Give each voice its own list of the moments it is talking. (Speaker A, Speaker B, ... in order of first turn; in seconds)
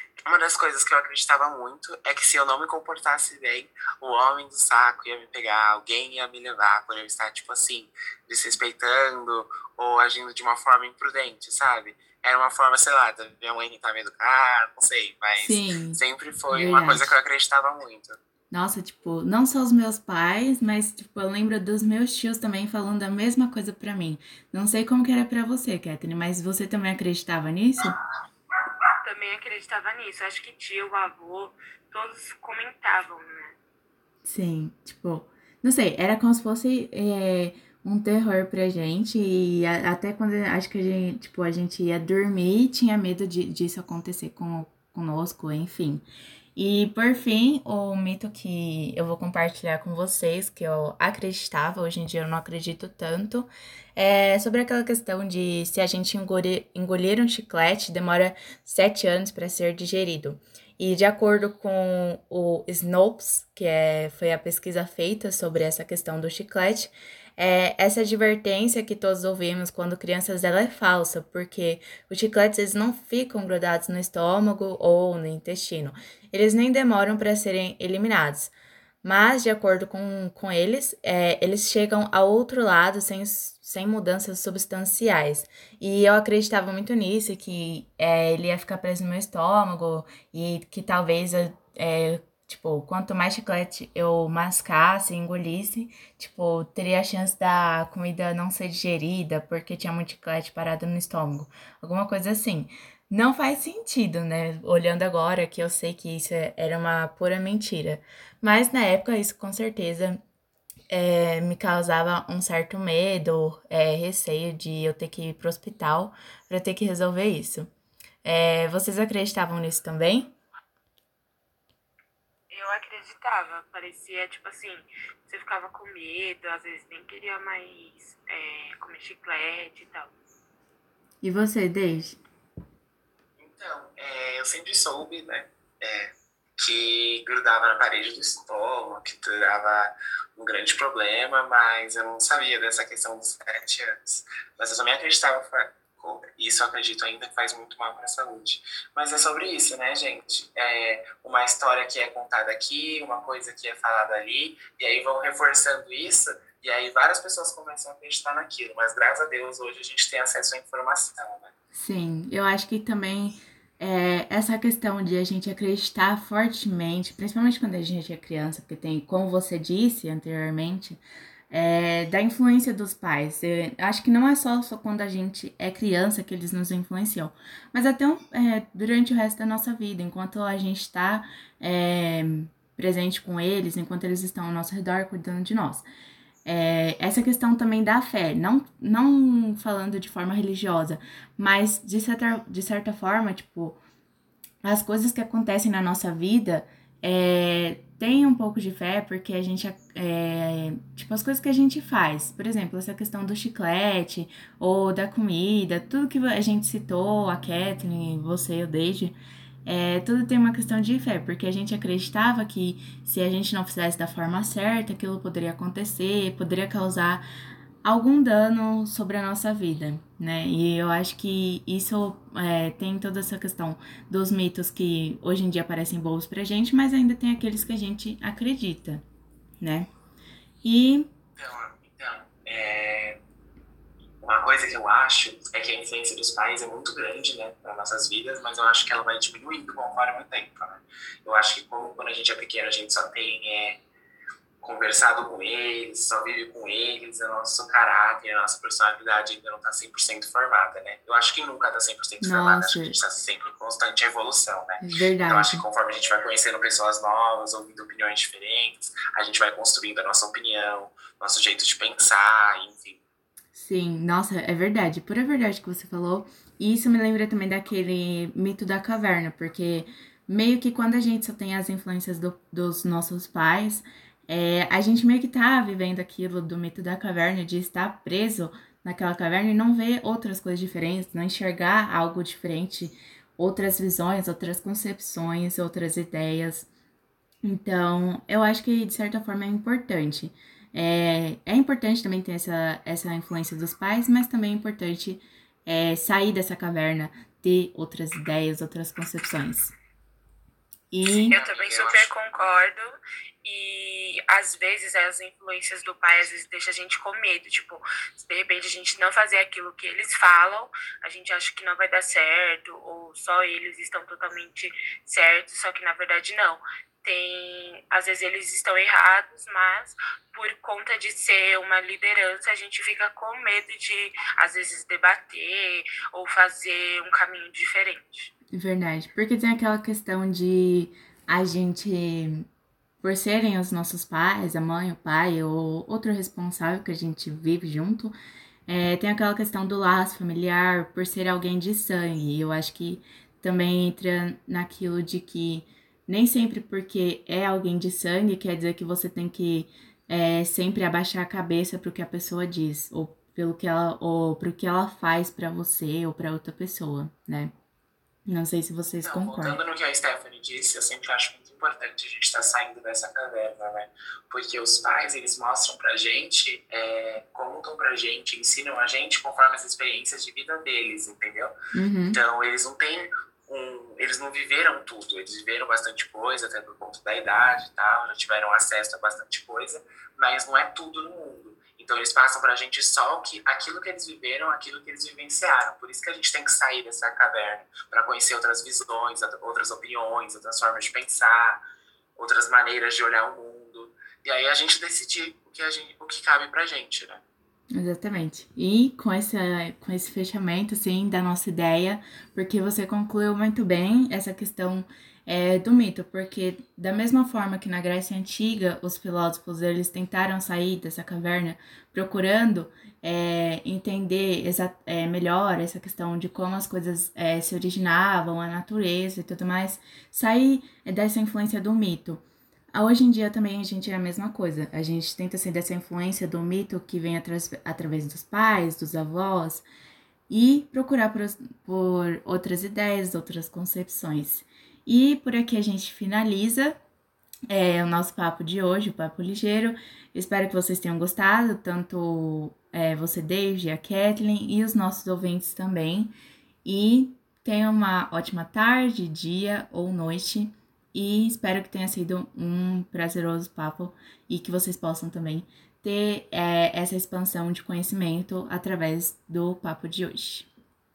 Speaker A: 0.3-18.2, 133.4-161.5, 231.4-233.2, 234.2-243.8, 244.6-263.0, 301.1-302.1, 359.0-371.5, 372.1-391.6, 392.2-397.2
Speaker B: 15.4-17.1, 18.5-27.9, 34.2-46.0, 46.6-110.2, 110.9-117.7, 118.2-120.3, 131.2-132.2, 161.7-185.9, 186.4-193.8, 194.6-217.2, 217.8-229.0, 229.6-229.9, 230.6-231.1, 252.2-253.0, 254.8-255.7, 263.5-286.7, 287.4-299.7, 300.9-301.4, 328.5-332.5, 333.0-338.1, 338.7-357.5, 358.3-359.6, 371.7-372.2, 397.7-429.6, 430.3-436.8, 437.5-446.1, 446.6-460.5
Speaker C: 29.0-33.5, 122.5-130.1, 301.3-328.3